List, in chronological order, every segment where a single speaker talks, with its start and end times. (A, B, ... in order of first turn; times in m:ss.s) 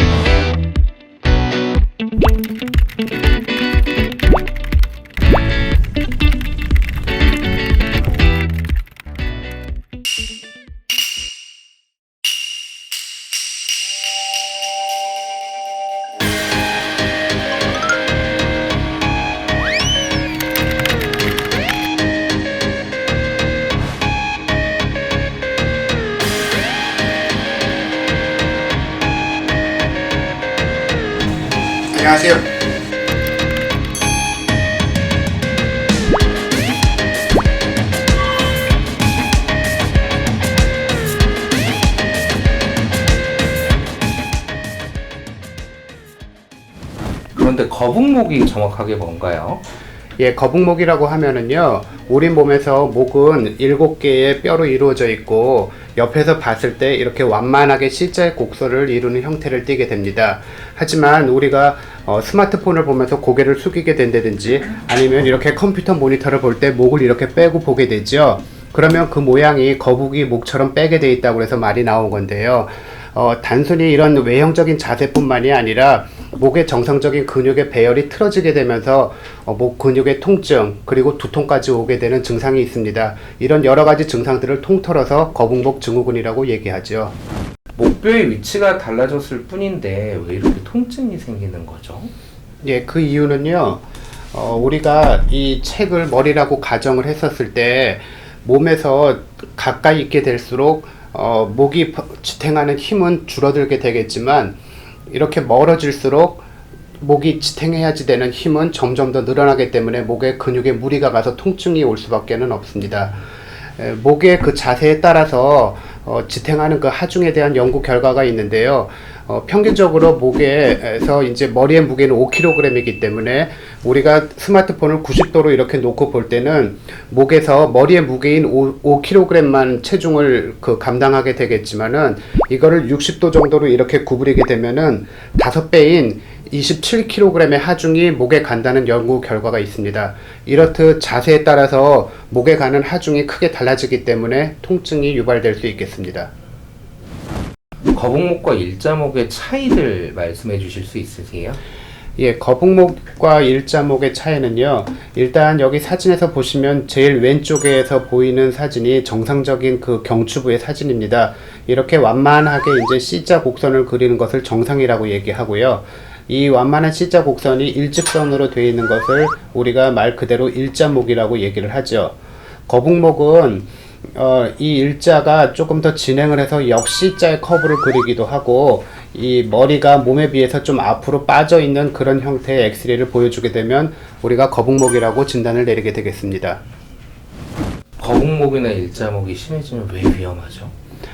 0:31.9-0:32.5 A
0:47.4-0:49.6 B
0:50.2-1:27.2 A
1:27.8-1:32.1 B
1:32.6-1:44.6 A
1:45.1-1:46.4 A
1:47.0-1:53.2 A
1:53.8-2:26.3 A
2:27.9-2:31.6 B
2:32.2-2:52.2 A
2:52.7-3:06.6 A
3:08.0-3:10.7 B